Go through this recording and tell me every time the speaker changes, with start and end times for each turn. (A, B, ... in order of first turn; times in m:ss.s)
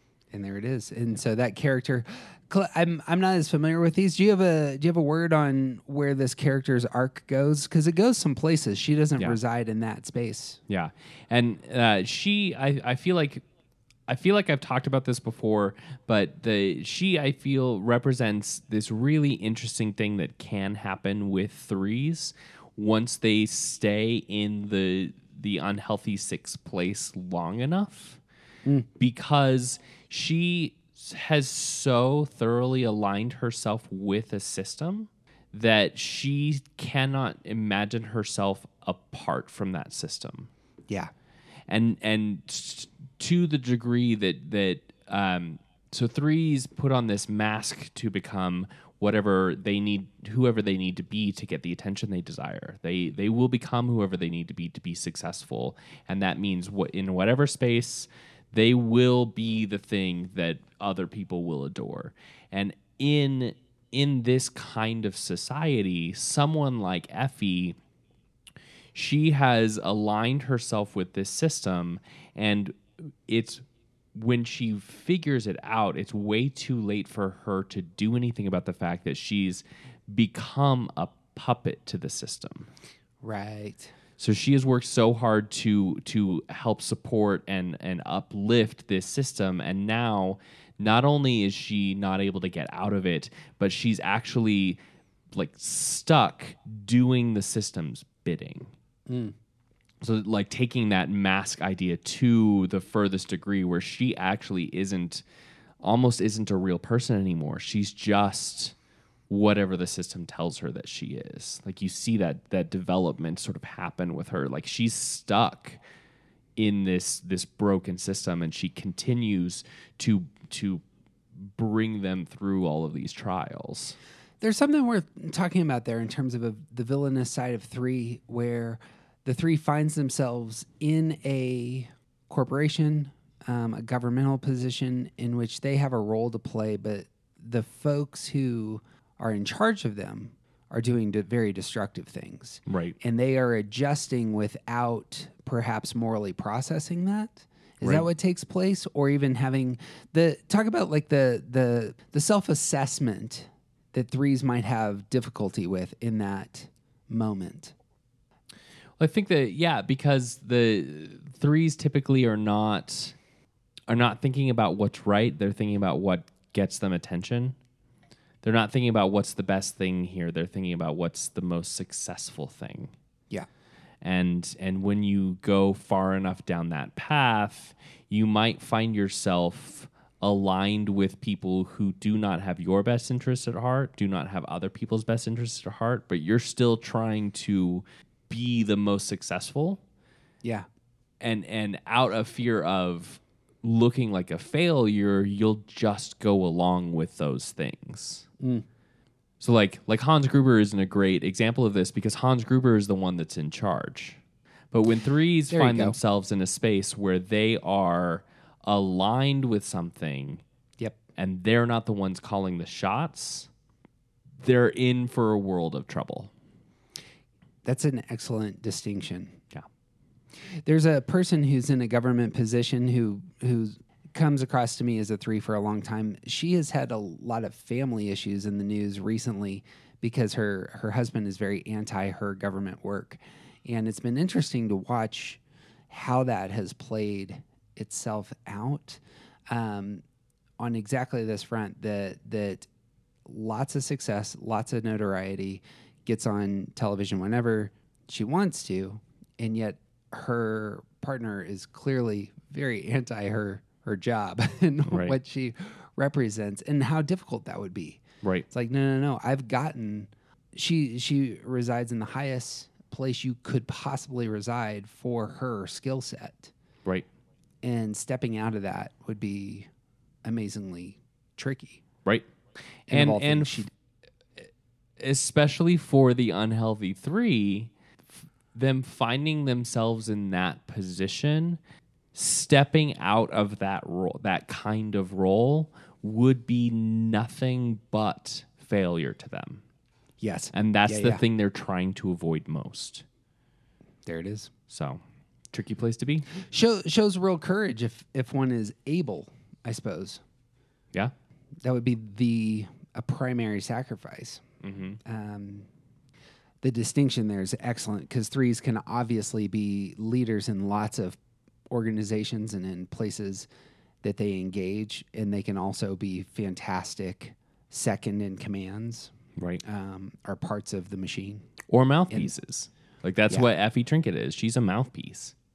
0:00.3-0:10.6 A
0:10.7-0:13.4 B
0:14.1-0:28.2 B
0:29.0-0:40.5 B
0:41.7-1:07.8 B
1:09.0-1:13.6 B
1:14.2-1:22.7 B
1:23.2-1:23.9 A
1:24.2-1:34.8 B
1:35.3-1:38.7 B
1:39.1-1:39.3 A
1:40.0-1:45.2 B
1:45.8-1:48.7 B
1:49.3-1:55.8 B
1:56.6-2:00.8 B
2:01.4-2:04.0 B
2:04.4-2:37.7 A
2:22.7-2:23.0 B
2:27.8-2:28.1 B
2:39.0-2:43.2 B
2:43.9-2:47.6 B
2:48.4-2:52.9 B
2:54.0-3:09.8 B
3:11.2-3:18.3 B
3:19.4-3:24.2 B
3:24.7-3:30.4 B
3:25.5-3:26.0 A
3:31.2-3:33.5 B
3:34.4-3:36.3 B
3:37.6-3:39.4 A
3:40.6-3:55.4 A
3:55.9-4:00.0 A
4:00.6-4:02.7 A
4:03.3-4:26.5 A
4:14.9-4:15.2 B
4:27.6-4:29.7 A
4:30.2-4:31.8 A
4:32.9-4:33.6 B
4:32.9-4:33.7 A
4:35.0-4:37.7 B
4:38.5-4:41.6 B
4:42.1-4:49.6 B
4:50.2-4:51.2 A
4:50.5-4:53.0 B
4:54.1-4:54.5 A
4:54.7-4:55.0 B
4:55.5-4:56.3 B
4:56.5-5:00.2 A
5:01.6-5:04.4 A
5:04.6-5:05.0 B
5:05.0-5:05.7 A
5:06.6-5:11.2 A
5:11.7-5:13.5 A
5:14.0-5:19.1 A
5:19.6-5:21.5 A
5:21.7-5:25.3 B